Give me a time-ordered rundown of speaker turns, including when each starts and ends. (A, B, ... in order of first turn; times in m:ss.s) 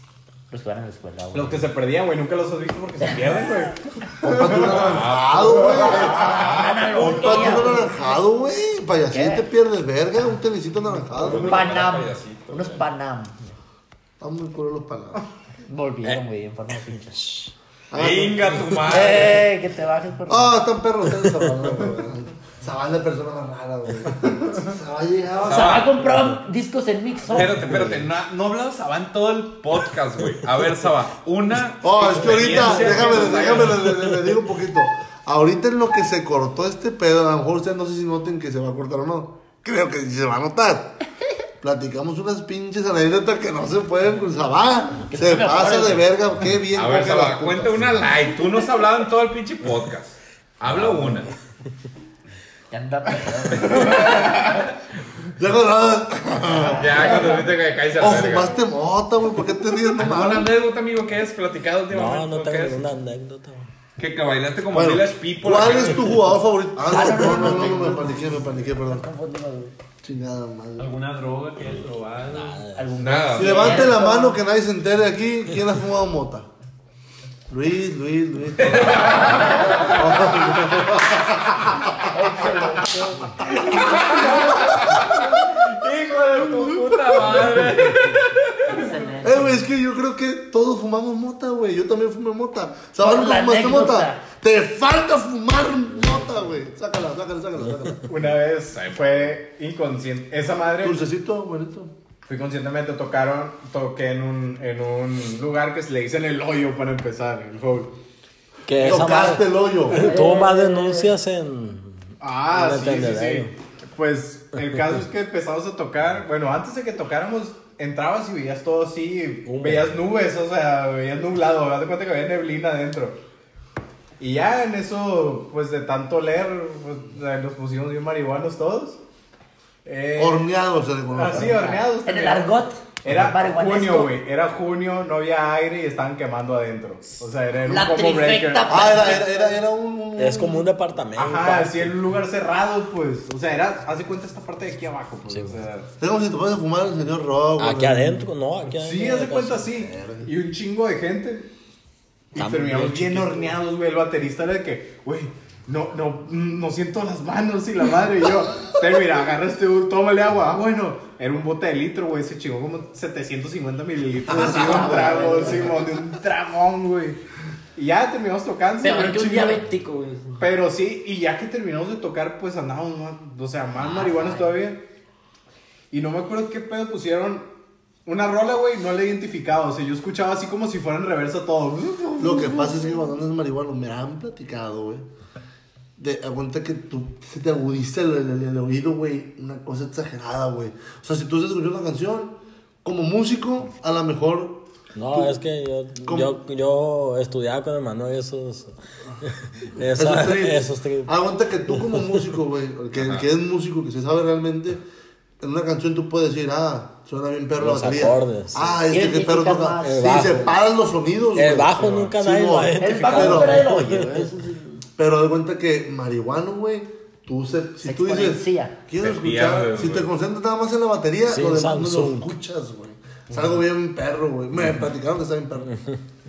0:00.5-0:01.7 A
0:01.3-0:04.7 B
0:04.2-0:11.7 C
0:04.6-0:07.8 D
0:05.6-0:08.2 A
0:09.1-0:09.4 A
0:11.2-0:12.8 D
0:11.3-0:13.6 A
0:14.2-0:15.2 C
0:15.7-0:17.5 A
0:17.9-0:19.4 C
0:18.0-0:19.4 D
0:18.9-0:20.5 A
0:20.3-0:25.9 C
0:25.4-0:26.0 D
0:25.5-0:28.0 A
0:27.3-0:34.0 D
0:31.8-0:40.9 C
0:32.4-0:33.6 E
0:41.6-0:48.0 C
0:45.1-0:46.1 A
0:46.7-0:51.3 D
0:50.7-0:51.3 F
0:52.7-0:54.7 A
0:53.7-0:54.6 D
0:55.4-0:57.4 C
0:56.6-0:57.5 A
0:56.6-0:58.6 D
0:58.0-1:00.5 C
0:59.9-1:02.8 D
1:01.9-1:03.7 F
1:04.0-1:06.2 D
1:04.7-1:09.1 C
1:06.8-1:09.8 A
1:10.0-1:10.9 C
1:10.8-1:12.6 E
1:12.3-1:12.9 F
1:12.8-1:14.4 A
1:13.0-1:14.0 D
1:13.3-1:16.5 C
1:17.5-1:21.9 C
1:18.6-1:20.4 D
1:22.0-1:24.7 A
1:23.6-1:28.9 D
1:23.8-1:25.0 C
1:28.7-1:29.6 A
1:29.2-1:38.2 C
1:33.0-1:34.2 A
1:38.1-1:41.0 B
1:38.7-1:39.4 D
1:40.8-1:41.9 C
1:42.2-1:47.9 B
1:48.7-1:53.5 F
1:48.8-1:50.2 C
1:49.9-1:51.1 A
1:52.2-2:03.2 B
1:59.4-2:00.0 F
2:04.2-2:09.0 B
2:09.8-2:10.5 B
2:10.2-2:11.7 C
2:11.1-2:19.0 B
2:11.3-2:14.2 A
2:17.7-2:19.6 A
2:18.7-2:20.7 C
2:20.2-2:21.9 F
2:21.2-2:25.9 B
2:26.0-2:28.3 C
2:27.6-2:29.7 F
2:28.7-2:31.5 B
2:29.9-2:30.3 C
2:32.3-2:47.2 B
2:32.4-2:33.6 F
2:44.3-2:45.7 C
2:44.4-2:45.7 A
2:47.8-2:49.6 B
2:48.8-2:50.4 A
2:50.4-2:54.8 B
2:53.8-2:54.6 A
2:55.9-2:57.5 B
2:58.1-3:02.8 B
3:02.2-3:05.1 C
3:06.0-3:15.4 C
3:15.0-3:21.1 F
3:16.0-3:16.3 C
3:19.8-3:24.8 C
3:21.7-3:22.2 F
3:22.9-3:23.3 D
3:25.4-3:33.8 C
3:27.6-3:28.8 F
3:28.9-3:30.1 A
3:29.8-3:30.5 F
3:31.4-3:34.3 F
3:32.8-3:34.8 A
3:35.0-3:45.7 C
3:37.8-3:38.8 A
3:39.0-3:40.1 D
3:41.3-3:42.3 F